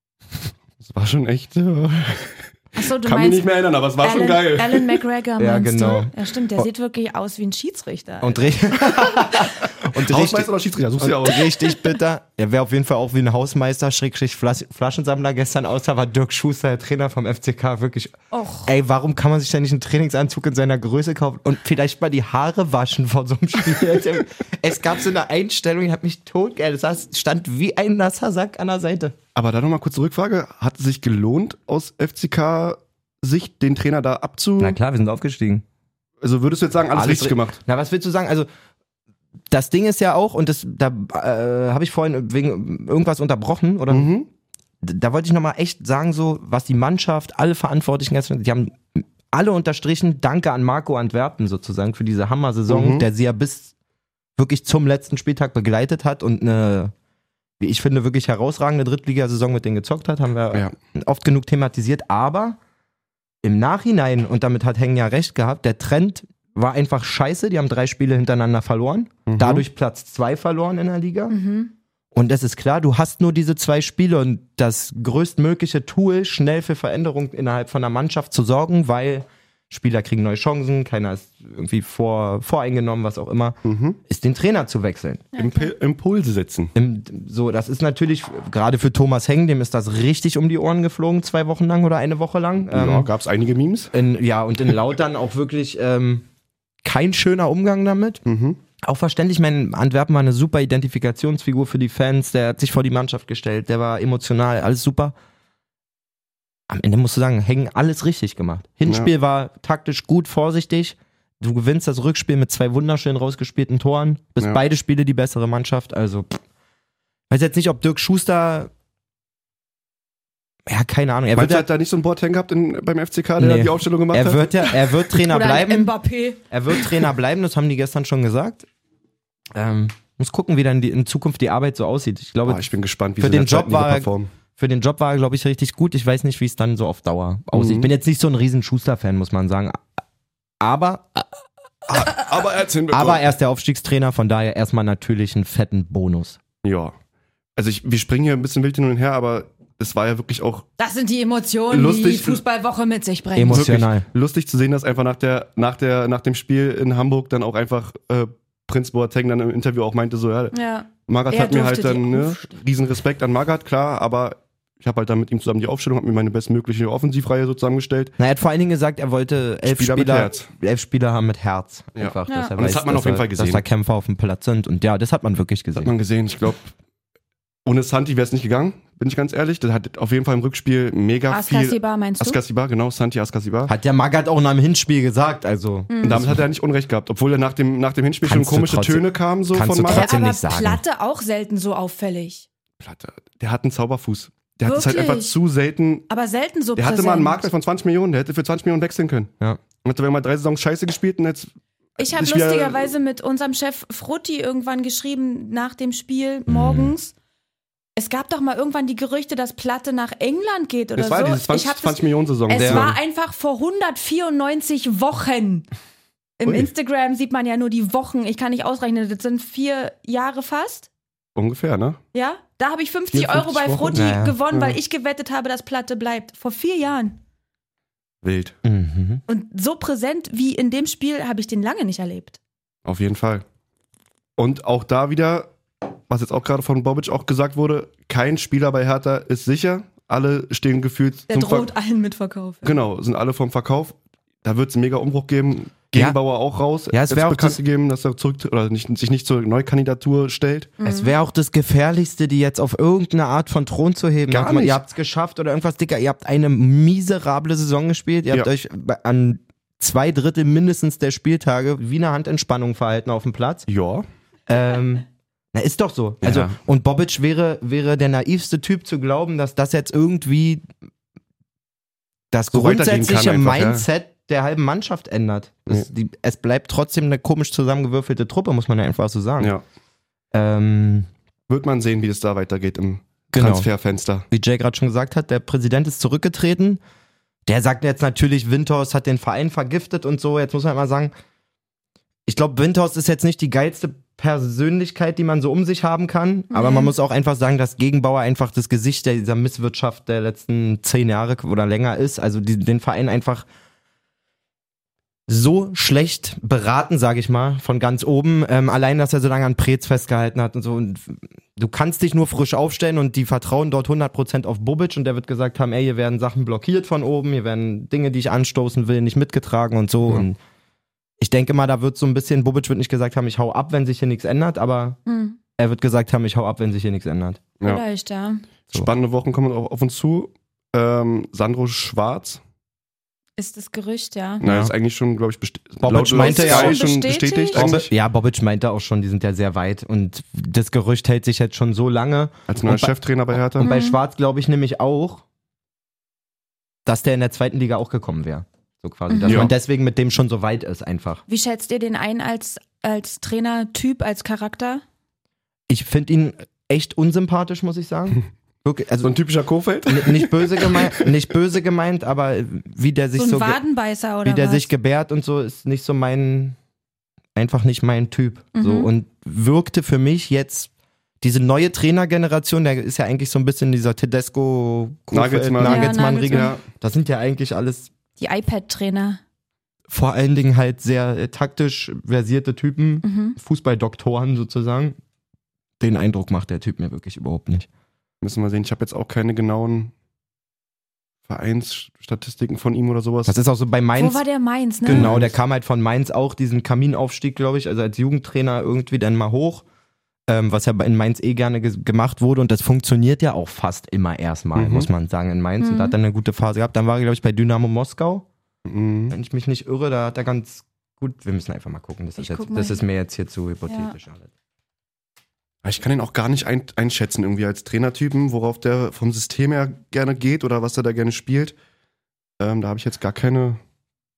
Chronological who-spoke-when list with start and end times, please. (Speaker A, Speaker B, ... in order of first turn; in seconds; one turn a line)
Speaker A: 0.8-5.0
Speaker B: 2.7-3.5
Speaker B: 4.0-8.6
Speaker C: 5.4-6.6
Speaker C: 8.2-29.1
Speaker A: 9.0-11.7
Speaker B: 18.3-18.7
Speaker A: 29.4-34.8
Speaker C: 34.6-35.6
Speaker A: 36.2-37.6
Speaker C: 36.9-38.5
Speaker C: 39.5-44.1
Speaker A: 43.9-44.3
Speaker C: 44.8-53.7
Speaker A: 52.7-53.1
Speaker C: 54.4-56.9
Speaker C: 57.6-62.6
Speaker C: 63.4-71.4
Speaker A: 69.2-69.6
Speaker B: 71.3-71.7
Speaker C: 72.1-85.3
Speaker A: 83.6-84.0
Speaker B: 85.3-85.7
Speaker A: 85.4-86.7
Speaker C: 86.7-93.1
Speaker A: 92.7-93.9
Speaker C: 93.9-96.2
Speaker C: 96.8-98.2
Speaker A: 98.2-98.6
Speaker C: 98.8-105.1
Speaker C: 106.7-116.4
Speaker C: 117.3-118.7
Speaker C: 120.7-121.7
Speaker A: 121.3-124.8
Speaker C: 123.4-125.9
Speaker B: 125.2-126.7
Speaker C: 126.5-128.7
Speaker C: 129.5-132.6
Speaker A: 132.4-134.3
Speaker C: 133.2-139.8
Speaker A: 137.5-137.9
Speaker C: 140.6-141.2
Speaker A: 141.9-143.2
Speaker C: 142.9-146.4
Speaker A: 146.6-146.9
Speaker A: 147.6-150.7
Speaker B: 150.8-153.7
Speaker A: 151.7-152.4
Speaker C: 153.3-154.1
Speaker A: 153.5-160.5
Speaker B: 160.5-162.5
Speaker A: 161.1-168.1
Speaker C: 168.2-175.9
Speaker A: 169.6-170.5
Speaker A: 171.9-173.6
Speaker B: 172.3-172.5
Speaker A: 175.7-176.7
Speaker A: 177.7-183.7
Speaker B: 181.3-182.4
Speaker C: 183.7-186.4
Speaker B: 185.9-186.2
Speaker A: 186.0-190.1
Speaker C: 188.2-190.8
Speaker B: 189.8-192.5
Speaker A: 192.8-196.1
Speaker B: 194.6-195.4
Speaker B: 196.1-197.4
Speaker A: 196.8-199.3
Speaker A: 199.8-202.9
Speaker B: 202.0-207.1
Speaker C: 206.5-206.9
Speaker B: 208.0-215.7
Speaker A: 210.9-212.9
Speaker C: 212.5-212.9
Speaker B: 216.4-220.9
Speaker A: 221.4-222.0
Speaker B: 222.1-227.2
Speaker A: 223.1-224.8
Speaker C: 223.9-224.4
Speaker A: 228.2-228.6
Speaker C: 228.6-229.2
Speaker B: 229.3-232.4
Speaker A: 232.8-233.4
Speaker A: 234.4-235.5
Speaker A: 236.1-241.7
Speaker B: 241.3-242.8
Speaker A: 242.6-250.7
Speaker C: 246.9-247.6
Speaker B: 250.8-251.1
Speaker C: 250.8-263.6
Speaker A: 254.3-254.8
Speaker A: 263.7-264.0
Speaker C: 264.5-270.7
Speaker A: 266.2-266.6
Speaker C: 272.3-279.5
Speaker A: 272.5-273.9
Speaker C: 280.3-281.1
Speaker A: 281.5-284.2
Speaker C: 283.3-283.7
Speaker C: 284.3-286.8
Speaker C: 287.4-291.1
Speaker C: 292.3-303.5
Speaker B: 296.5-296.9
Speaker C: 305.3-320.4
Speaker C: 321.2-325.0
Speaker B: 325.1-325.4
Speaker C: 325.6-327.4
Speaker B: 327.6-328.4
Speaker A: 328.7-332.4
Speaker B: 333.4-334.4
Speaker C: 334.4-334.7
Speaker A: 334.4-337.9
Speaker C: 335.8-336.8
Speaker B: 336.1-337.7
Speaker C: 337.5-345.2
Speaker A: 342.5-343.7
Speaker B: 343.6-344.0
Speaker C: 346.9-351.2
Speaker B: 349.1-349.5
Speaker A: 349.2-349.5
Speaker B: 351.3-354.8
Speaker C: 355.7-359.1
Speaker A: 359.0-361.1
Speaker C: 359.9-363.6
Speaker B: 363.2-364.7
Speaker C: 364.2-366.6
Speaker C: 367.4-370.7
Speaker B: 368.5-368.9
Speaker C: 371.2-377.9
Speaker A: 375.1-376.6
Speaker B: 375.6-376.6
Speaker B: 378.2-379.2
Speaker C: 379.9-385.0
Speaker B: 383.0-383.4
Speaker C: 385.8-387.7
Speaker A: 388.2-389.9
Speaker A: 391.3-393.4
Speaker C: 393.2-394.2
Speaker B: 394.0-395.1
Speaker C: 394.9-399.6
Speaker A: 394.9-395.3
Speaker C: 400.3-408.3
Speaker A: 404.5-404.9
Speaker B: 405.6-406.0
Speaker A: 408.6-409.1
Speaker C: 409.1-414.3
Speaker B: 412.2-412.8
Speaker B: 413.7-413.9
Speaker A: 415.6-421.5
Speaker A: 422.4-423.6